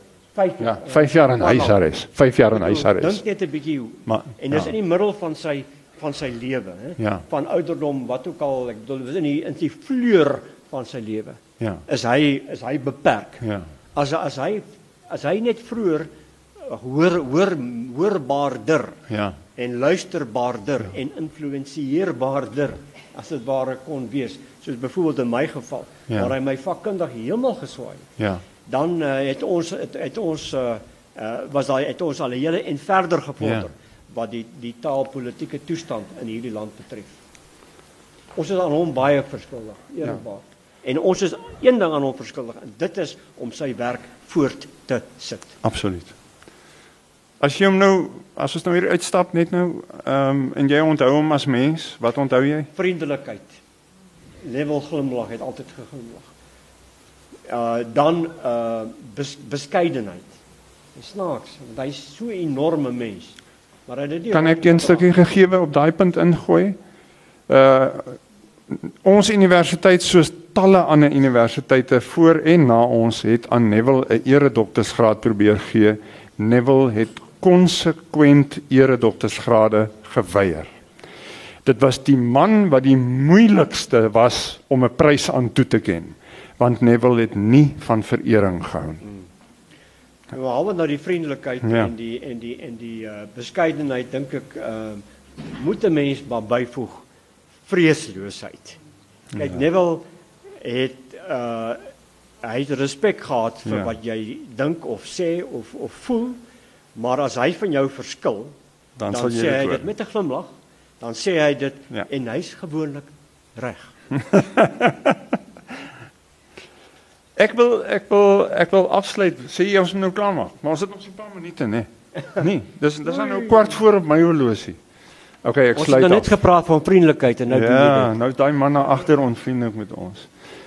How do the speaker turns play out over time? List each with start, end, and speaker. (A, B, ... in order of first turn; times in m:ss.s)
0:00.4-0:01.8 A
0:00.6-0:03.2 B
0:02.5-0:13.4 A
0:04.1-0:04.7 B
0:07.0-0:07.2 B
0:13.4-0:13.7 B
0:14.0-0:16.1 A
0:16.6-0:19.0 A
0:19.1-0:19.4 B
0:19.6-0:28.1 A
0:28.2-0:28.4 B
0:28.7-0:37.2 A
0:33.4-0:33.7 B
0:38.4-0:45.6 A
0:45.6-0:46.2 B
0:47.4-0:52.7 B
0:52.7-0:53.6 A
0:54.4-0:56.3 A
0:57.5-1:00.3 A
1:01.0-1:05.1 A
1:04.3-1:06.8 B
1:07.5-1:20.7 B
1:21.6-1:29.0 B
1:30.3-1:35.0 A
1:31.6-1:31.9 B
1:35.5-1:37.0 A
1:37.7-1:38.8 A
1:39.3-1:39.6 B
1:39.3-1:40.0 A
1:40.6-1:41.8 A
1:42.4-1:46.4 A
1:43.7-1:43.9 B
1:47.0-1:48.5 A
1:49.0-1:49.9 B
1:49.1-1:53.9 A
1:54.2-1:55.2 B
1:57.4-2:04.8 B
2:03.2-2:03.6 A
2:05.4-2:06.3 B
2:05.7-2:08.1 A
2:07.5-2:10.3 B